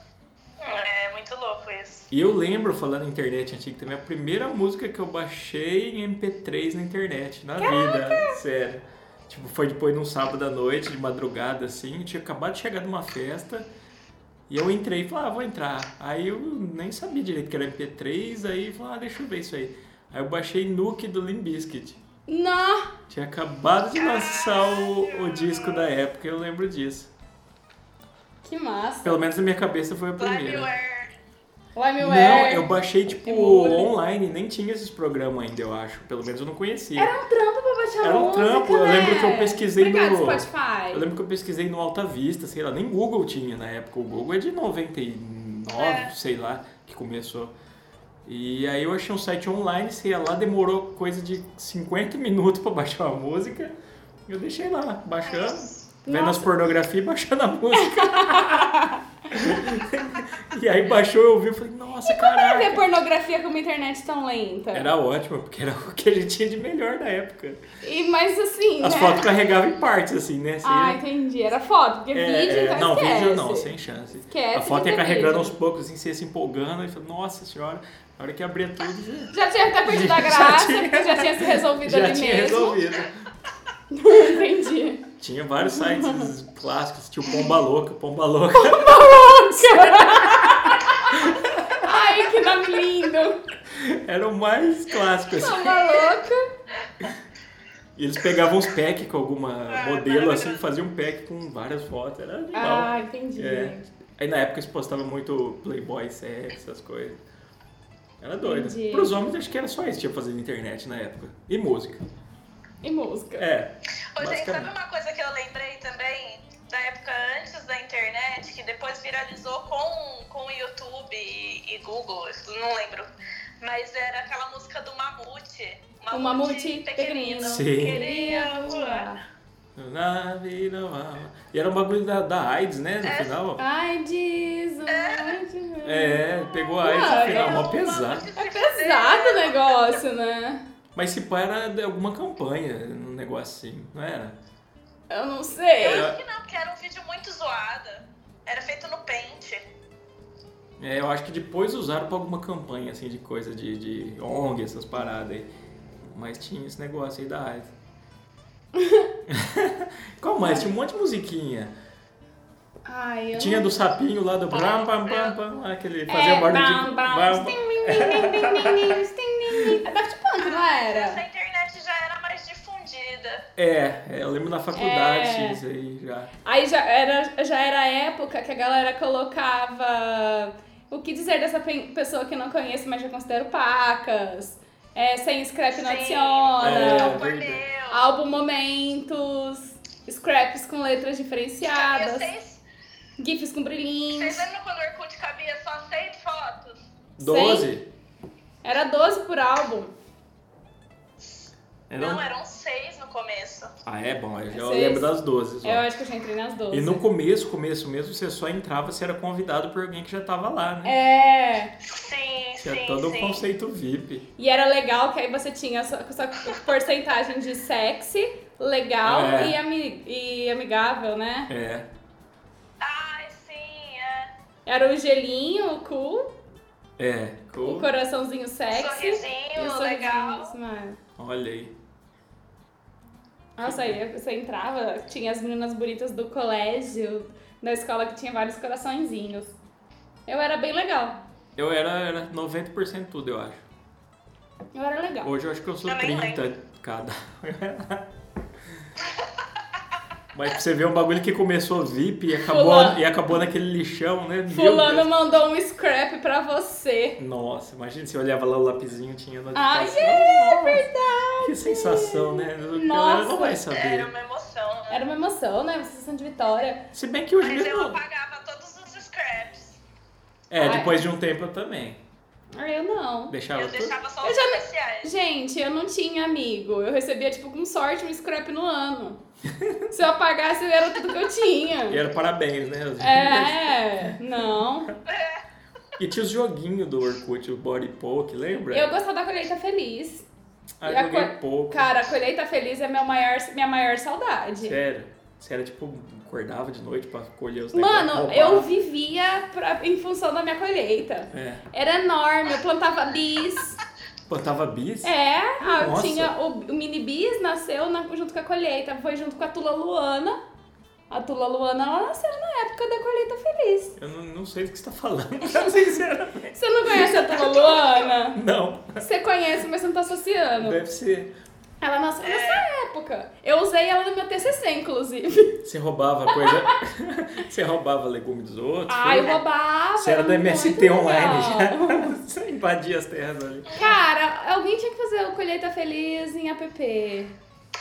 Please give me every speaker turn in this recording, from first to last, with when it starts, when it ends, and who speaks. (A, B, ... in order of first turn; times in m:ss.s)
0:00.6-0:02.1 A
0:02.1-0:13.7 B
0:07.6-0:08.4 C
0:14.5-0:22.0 B
0:22.3-0:22.9 C
0:23.1-0:27.1 B
0:23.9-0:25.8 A
0:28.4-0:29.2 C
0:29.0-0:30.7 B
0:30.2-0:31.1 A
0:31.7-0:33.9 C
0:32.0-0:37.1 B
0:37.0-0:41.0 C
0:38.0-0:47.5 B
0:45.7-0:46.1 A
0:48.2-0:53.7 B
0:54.3-0:58.7 B
0:55.2-0:55.8 A
0:56.0-0:56.5 C
0:57.8-0:59.0 C
0:59.3-1:02.8 B
1:02.0-1:04.9 C
1:04.7-1:07.6 B
1:07.8-1:09.3 C
1:08.8-1:11.0 B
1:10.6-1:13.7 C
1:12.1-1:19.3 B
1:14.3-1:15.5 C
1:19.3-1:22.8 C
1:19.8-1:23.2 B
1:23.9-1:25.0 C
1:25.2-1:29.1 B
1:25.6-1:26.3 C
1:27.3-1:27.6 C
1:28.5-1:33.4 C
1:31.1-1:31.9 B
1:33.7-1:36.1 B
1:35.3-1:36.5 C
1:38.0-1:47.2 B
1:39.7-1:40.7 A
1:42.5-1:43.9 C
1:48.2-1:52.0 B
1:48.4-1:49.1 C
1:52.8-1:53.5 C
1:53.4-1:54.7 B
1:54.1-2:09.1 A
2:06.1-2:09.2 C
2:07.4-2:08.0 B
2:09.8-2:13.6 B
2:13.0-2:13.4 A
2:13.6-2:17.8 C
2:14.9-2:15.4 A
2:15.8-2:18.3 B
2:17.0-2:20.0 A
2:18.4-2:20.6 C
2:20.9-2:24.4 B
2:25.1-2:26.1 C
2:25.8-2:29.6 A
2:25.8-2:26.2 B
2:30.8-2:35.5 B
2:36.1-2:37.7 B
2:38.7-2:39.1 C
2:39.3-2:41.7 B
2:40.4-2:40.7 C
2:42.8-2:43.8 C
2:43.3-2:49.0 B
2:44.5-2:45.4 A
2:46.1-2:51.2 C
2:50.4-2:53.4 A
2:53.6-2:56.3 B
2:54.7-2:55.6 C
2:56.4-3:07.2 C
3:05.7-3:08.0 A
3:06.6-3:07.6 B
3:07.9-3:12.3 C
3:11.7-3:12.6 A
3:13.2-3:14.4 C
3:14.1-3:16.8 A
3:17.2-3:17.8 B
3:17.2-3:17.7 C
3:18.6-3:19.9 C
3:21.2-3:23.7 A
3:21.9-3:22.2 B
3:23.8-3:25.9 B
3:24.5-3:25.1 C
3:25.6-3:27.0 C
3:26.7-3:31.0 B
3:30.8-3:31.7 C
3:31.8-3:33.4 A
3:32.6-3:34.2 B
3:34.4-3:41.5 C
3:39.0-3:39.6 B
3:41.5-3:41.9 B
3:42.8-3:44.3 A
3:44.6-3:46.3 C
3:47.0-3:47.9 B
3:47.6-3:51.0 C
3:48.7-3:50.5 A
3:51.2-3:51.7 B
3:53.6-3:59.6 C
3:53.6-3:54.0 B
4:00.3-4:01.2 C
4:01.6-4:03.6 B
4:04.7-4:05.3 C
4:05.2-4:08.1 B
4:05.8-4:06.4 A
4:10.3-4:15.1 B
4:12.4-4:13.0 C
4:14.5-4:17.2 C
4:17.2-4:20.8 B
4:19.5-4:23.6 C
4:21.4-4:24.1 B
4:23.7-4:25.0 A
4:24.9-4:26.8 C
4:26.9-4:28.0 B
4:27.4-4:29.8 A
4:30.5-4:32.0 B
4:30.6-4:31.0 C
4:32.5-4:33.4 C
4:33.3-4:33.9 B
4:33.5-4:35.1 A
4:34.2-4:39.2 C
4:39.5-4:39.9 B
4:39.9-4:42.0 C
4:41.9-4:44.1 B
4:43.0-4:44.9 C
4:45.0-4:45.4 A
4:46.0-4:48.9 B
4:48.7-4:50.2 C
4:50.8-4:51.9 B
4:50.8-4:54.8 C
4:54.6-4:58.7 B
4:57.7-5:03.8 C
5:01.3-5:01.6 B
5:04.3-5:06.3 B
5:05.0-5:10.4 C
5:11.1-5:14.0 C
5:14.0-5:17.7 B
5:15.5-5:15.8 C
5:16.5-5:18.4 C
5:18.3-5:19.0 B
5:19.0-5:20.8 C
5:20.6-5:21.3 B
5:21.8-5:25.6 C
5:22.2-5:22.6 A
5:25.6-5:29.4 B
5:26.3-5:26.6 C
5:28.9-5:32.1 C
5:30.0-5:33.9 B
5:33.7-5:37.3 C